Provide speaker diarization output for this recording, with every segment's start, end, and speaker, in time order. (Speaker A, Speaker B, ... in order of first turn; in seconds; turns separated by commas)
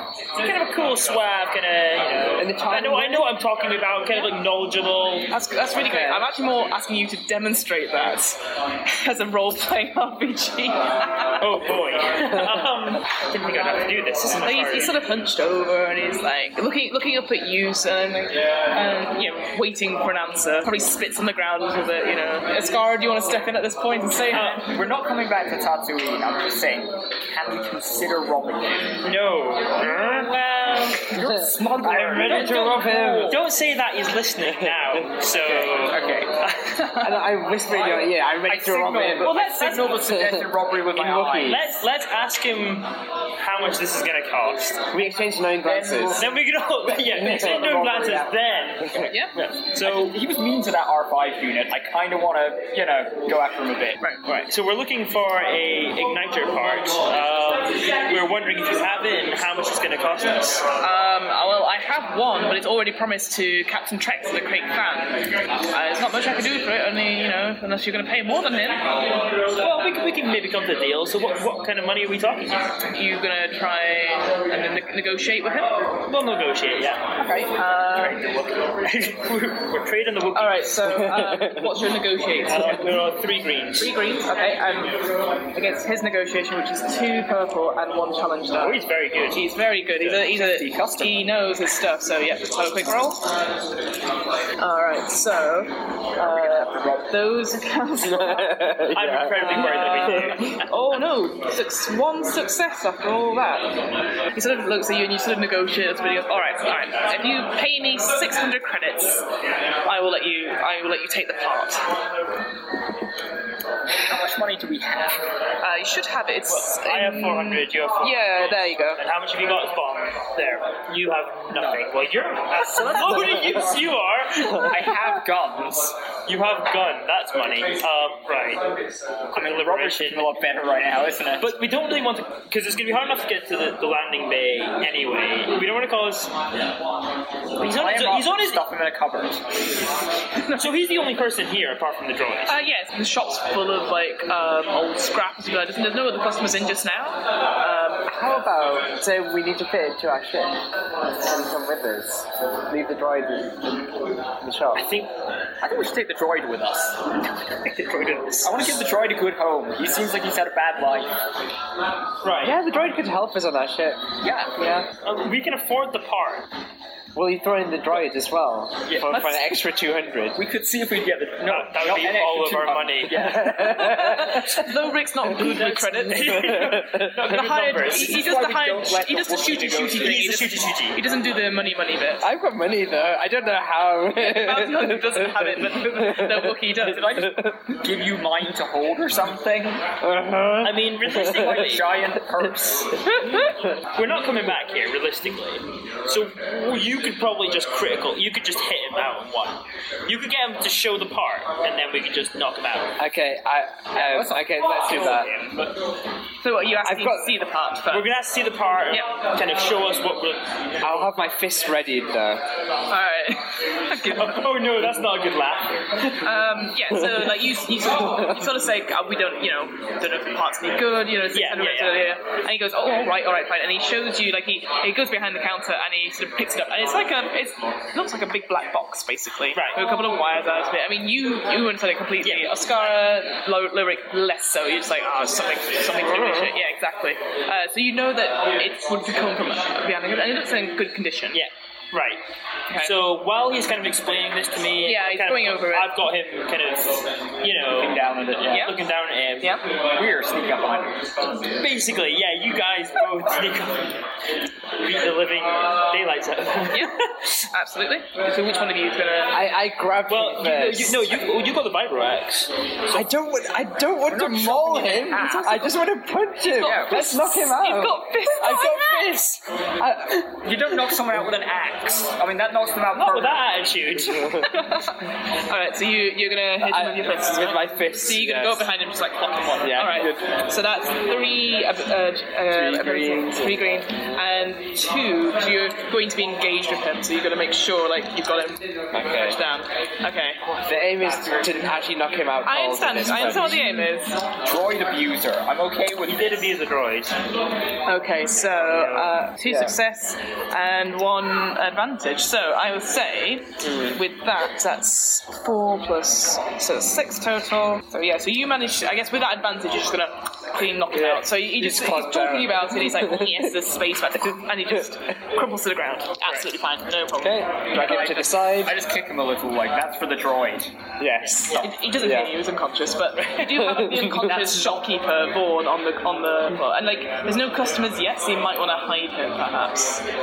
Speaker A: 0.4-5.3, Speaker B: 2.4-3.3, Speaker C: 5.3-11.4, Speaker B: 5.8-6.3, Speaker A: 11.4-15.0, Speaker C: 14.4-24.6, Speaker D: 24.3-29.0, Speaker A: 24.3-24.6, Speaker A: 29.0-31.1, Speaker D: 31.1-33.4, Speaker B: 31.2-33.4, Speaker A: 31.8-37.0, Speaker D: 35.4-36.4, Speaker B: 37.0-41.7, Speaker D: 37.7-41.7, Speaker C: 39.2-40.0, Speaker A: 41.4-44.9, Speaker B: 44.9-46.3, Speaker D: 45.6-49.1, Speaker A: 46.2-50.2, Speaker C: 49.1-49.3, Speaker D: 49.7-54.0, Speaker C: 54.0-54.3, Speaker A: 54.3-60.7, Speaker C: 60.8-68.8, Speaker A: 69.5-72.7, Speaker C: 72.9-75.8, Speaker A: 76.1-77.0, Speaker D: 77.2-78.6, Speaker C: 77.5-78.2, Speaker A: 78.8-80.7, Speaker C: 80.3-82.8, Speaker B: 81.0-81.7, Speaker A: 82.5-83.9, Speaker C: 83.8-85.0, Speaker C: 85.5-93.2, Speaker A: 88.6-89.4, Speaker D: 90.1-91.2, Speaker C: 94.6-98.7, Speaker D: 96.2-97.2, Speaker B: 98.0-100.3, Speaker A: 98.9-100.7, Speaker C: 99.4-103.7, Speaker C: 104.3-109.3, Speaker C: 109.8-111.8, Speaker D: 113.9-115.3, Speaker C: 115.6-119.0, Speaker A: 116.5-124.8, Speaker D: 121.5-121.9, Speaker D: 122.6-123.9, Speaker D: 124.5-126.0, Speaker A: 126.3-128.7, Speaker A: 129.3-130.4, Speaker D: 129.3-131.5, Speaker A: 131.4-136.3, Speaker A: 137.6-138.6, Speaker D: 137.6-139.4, Speaker C: 140.4-140.7, Speaker A: 140.6-142.6, Speaker C: 142.5-148.1, Speaker B: 148.1-150.6, Speaker B: 151.2-153.8, Speaker B: 154.4-154.8, Speaker A: 154.7-155.1, Speaker D: 155.6-157.0, Speaker A: 157.6-158.8, Speaker D: 158.4-161.1, Speaker A: 162.2-162.6, Speaker B: 162.4-164.0, Speaker D: 164.2-164.6, Speaker A: 165.0-166.5, Speaker B: 167.2-170.4, Speaker D: 168.8-169.4, Speaker D: 170.4-173.9, Speaker A: 171.4-173.4, Speaker B: 173.2-174.5, Speaker C: 173.5-182.3, Speaker A: 175.4-178.4, Speaker B: 176.5-177.2, Speaker D: 177.8-180.4, Speaker A: 179.9-181.0, Speaker B: 182.2-186.6, Speaker C: 184.2-187.1, Speaker D: 186.8-189.9, Speaker B: 187.2-187.5, Speaker B: 190.0-191.3, Speaker A: 190.6-191.9, Speaker D: 191.2-192.9, Speaker B: 193.1-193.5, Speaker C: 193.1-193.4, Speaker A: 193.9-203.0, Speaker B: 203.0-205.3, Speaker D: 203.9-205.7, Speaker A: 204.9-205.2, Speaker C: 206.4-208.1, Speaker B: 206.8-207.3, Speaker A: 207.9-210.5, Speaker B: 210.8-212.4, Speaker C: 212.9-214.4, Speaker A: 214.1-216.2, Speaker C: 216.2-241.4, Speaker A: 221.3-222.0, Speaker A: 229.5-229.8, Speaker A: 232.2-232.5, Speaker A: 241.3-242.2, Speaker A: 242.8-249.6, Speaker C: 244.8-246.0, Speaker D: 247.7-248.7, Speaker C: 248.5-248.8, Speaker D: 249.9-251.4, Speaker A: 251.6-253.9, Speaker A: 254.8-257.3, Speaker C: 256.7-259.4, Speaker B: 259.3-261.1, Speaker A: 260.1-263.1, Speaker B: 262.9-270.9, Speaker D: 264.1-265.7, Speaker C: 265.1-265.7, Speaker C: 266.5-269.1, Speaker D: 266.6-267.2, Speaker D: 270.4-273.5, Speaker A: 272.9-274.5, Speaker B: 274.2-274.5, Speaker C: 274.4-290.4, Speaker B: 276.6-278.7, Speaker B: 279.6-280.3, Speaker B: 282.5-283.8, Speaker B: 288.9-289.4, Speaker B: 290.6-293.8, Speaker D: 291.2-291.7, Speaker C: 292.4-294.2, Speaker D: 294.4-296.5, Speaker A: 296.0-297.2, Speaker C: 297.9-317.9, Speaker A: 298.7-299.1, Speaker B: 299.4-299.8, Speaker B: 303.6-304.0, Speaker B: 310.9-313.5, Speaker B: 317.2-318.8, Speaker D: 317.7-320.7, Speaker B: 321.0-322.3, Speaker C: 321.5-330.1, Speaker B: 323.4-324.6